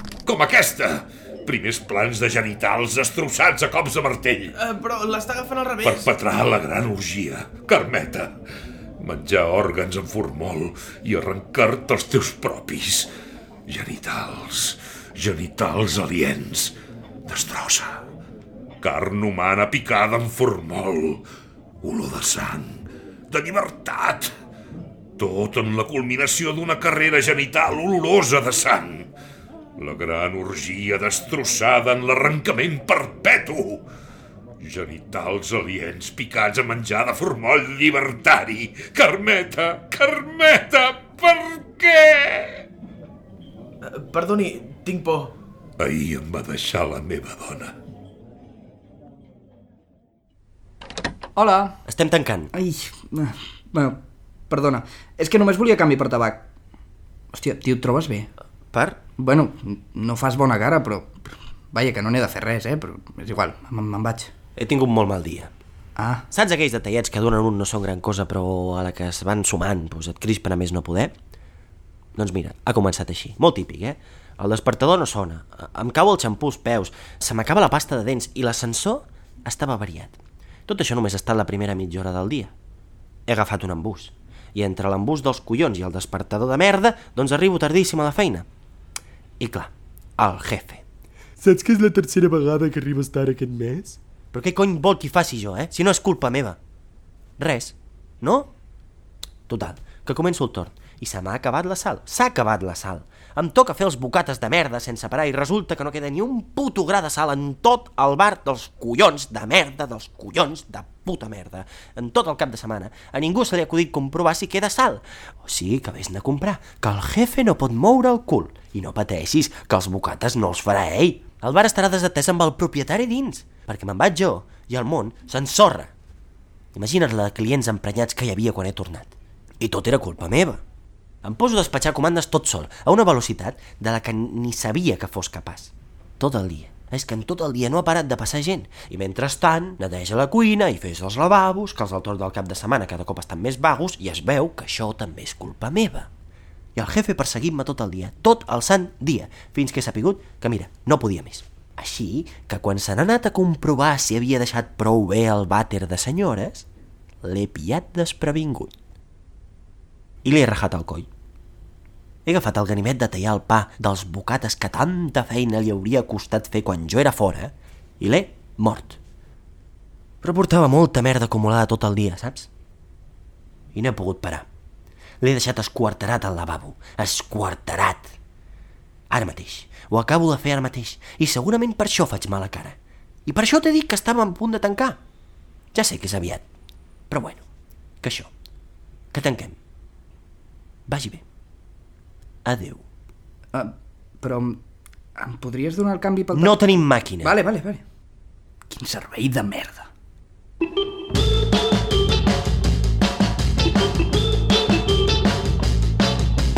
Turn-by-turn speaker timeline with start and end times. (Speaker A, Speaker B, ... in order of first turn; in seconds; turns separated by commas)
Speaker A: 0.3-4.5, Speaker B: 4.6-6.1, Speaker A: 5.8-8.3, Speaker A: 9.0-13.1, Speaker A: 13.7-16.8, Speaker A: 17.3-18.0, Speaker A: 18.8-21.2, Speaker A: 21.8-24.3, Speaker A: 25.2-29.1, Speaker A: 29.8-33.9, Speaker A: 34.6-42.6, Speaker B: 43.9-45.3, Speaker A: 45.8-47.7, Speaker C: 51.4-51.8, Speaker D: 51.9-52.5, Speaker C: 52.5-56.5, Speaker C: 57.3-58.3, Speaker D: 58.7-59.0, Speaker C: 59.2-64.3, Speaker D: 64.6-65.5, Speaker C: 66.0-66.2, Speaker D: 66.3-71.1, Speaker D: 72.2-82.5, Speaker D: 83.3-88.5, Speaker D: 89.4-90.8, Speaker E: 91.4-94.0, Speaker D: 94.3-96.6, Speaker D: 97.4-98.5, Speaker D: 99.5-125.9, Speaker D: 126.8-130.6, Speaker D: 131.2-146.1, Speaker D: 146.8-156.7, Speaker D: 157.2-158.7, Speaker D: 160.2-161.1, Speaker D: 162.2-169.0, Speaker D: 170.2-172.5, Speaker D: 173.8-174.5, Speaker D: 175.2-178.1, Speaker D: 179.1-185.0, Speaker D: 185.7-186.4, Speaker D: 187.1-187.4, Speaker D: 188.0-188.3, Speaker D: 189.1-189.6, Speaker D: 190.9-191.2, Speaker D: 192.5-192.8, Speaker C: 193.5-194.6, Speaker C: 195.2-197.8, Speaker D: 196.3-197.4, Speaker C: 198.7-199.9